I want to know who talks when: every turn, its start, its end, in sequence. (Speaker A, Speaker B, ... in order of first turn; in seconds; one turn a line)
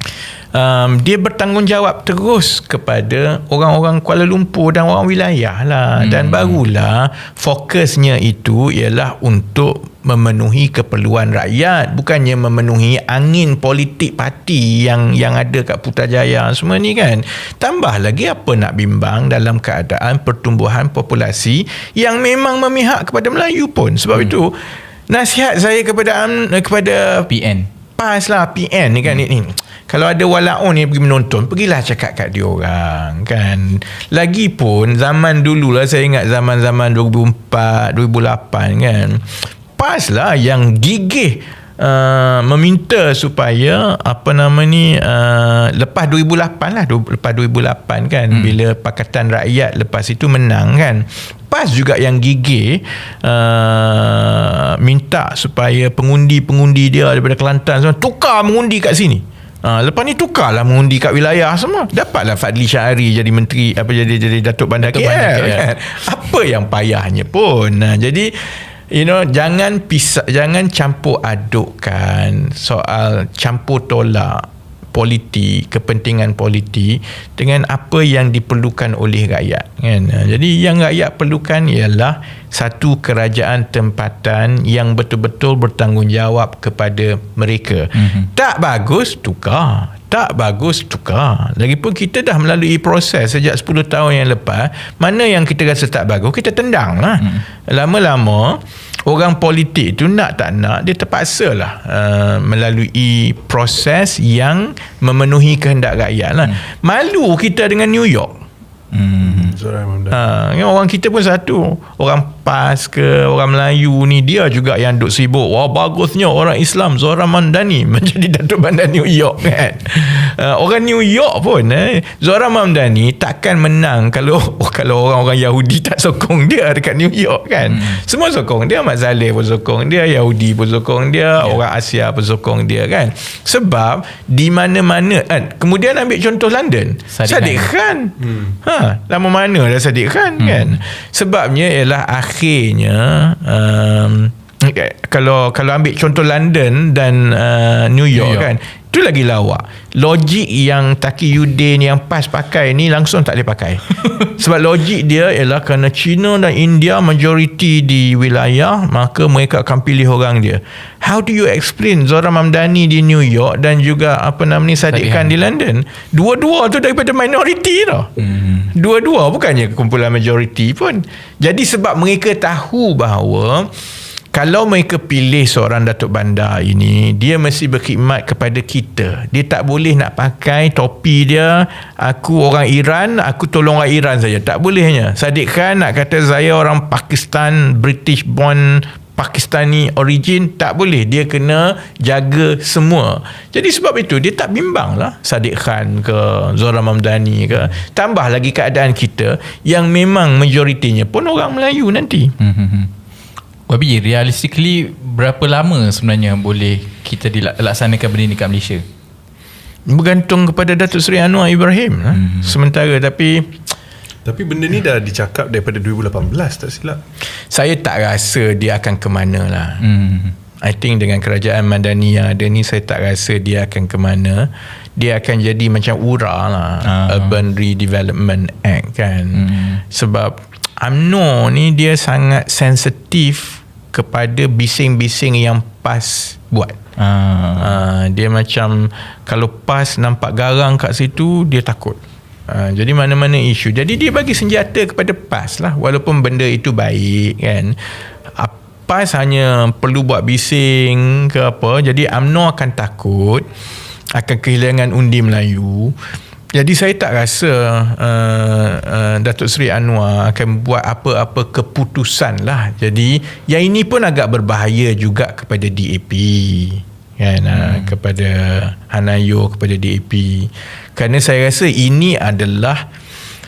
Speaker A: 0.5-27.3
Speaker B: 6.0-6.6
Speaker B: 27.3-27.7
Speaker A: 28.0-108.4
Speaker B: 48.3-48.6
Speaker B: 64.8-65.7
Speaker B: 87.9-88.3
Speaker B: 108.9-109.5
Speaker C: 109.2-110.3
Speaker A: 110.1-168.1
Speaker B: 127.6-128.0
Speaker B: 137.1-137.7
Speaker B: 140.4-140.8
Speaker B: 148.1-148.5
Speaker B: 164.9-165.4
Speaker B: 168.2-168.7
Speaker A: 168.7-173.7
Speaker A: 174.3-202.3
Speaker B: 202.4-202.9
Speaker B: 203.7-208.8
Speaker A: 209.9-213.6
Speaker B: 212.1-212.6
Speaker C: 214.2-217.0
Speaker A: 217.5-219.8
Speaker B: 219.8-220.3
Speaker A: 220.6-236.8
Speaker B: 226.8-227.4
Speaker B: 229.3-229.8
Speaker B: 237.0-237.8
Speaker A: 237.6-247.8
Speaker A: 248.4-253.5
Speaker A: 254.1-255.9
Speaker A: 256.5-272.9
Speaker B: 267.5-267.9